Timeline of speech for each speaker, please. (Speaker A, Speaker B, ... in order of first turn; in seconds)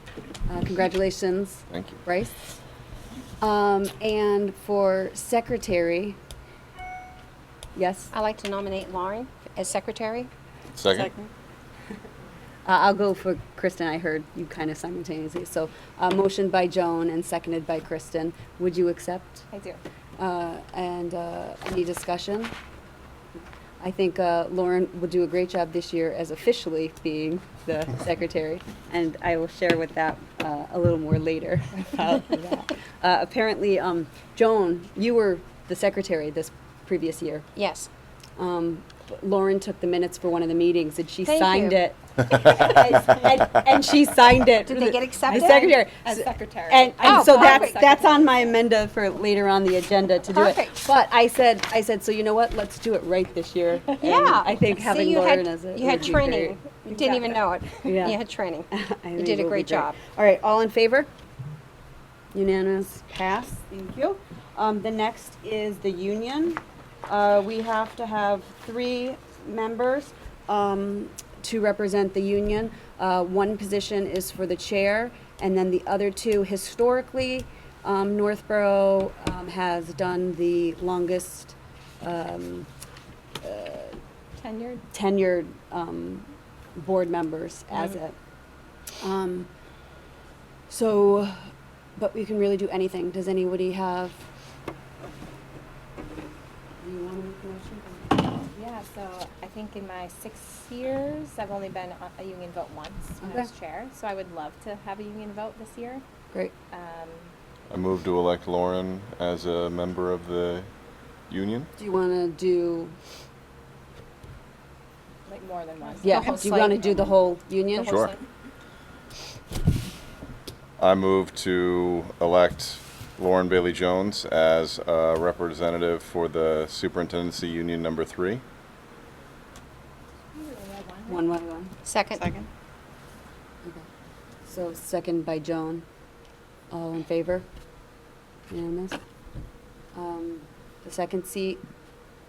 Speaker A: 0.5-2.4, 3.4-6.2, 7.7-8.1, 12.6-19.5, 20.2-22.5, 23.8-37.5, 38.4-56.6, 57.8-58.2, 58.7-61.1, 62.3-82.7, 83.4-84.0, 84.9-88.1, 89.0-89.5, 90.7-94.2, 96.8-98.4, 103.2-103.5, 111.8-112.9, 116.0-118.1, 131.1-131.7, 134.4-135.8, 136.7-137.4, 138.5-139.0, 139.9-141.6
Speaker B: 8.1-10.3, 10.9-11.3, 37.5-37.9, 41.2-41.8, 44.7-45.7, 47.0-47.8, 50.3-50.9, 54.0-60.0, 116.0-117.1, 117.7-118.1, 131.8-132.2
Speaker C: 19.5-19.8, 45.2-48.4, 56.9-57.8, 84.4-84.8, 98.5-106.0, 106.7-107.3, 115.2-116.5, 130.3-131.3
Speaker D: 107.7-110.7, 111.3-111.7, 120.8-128.4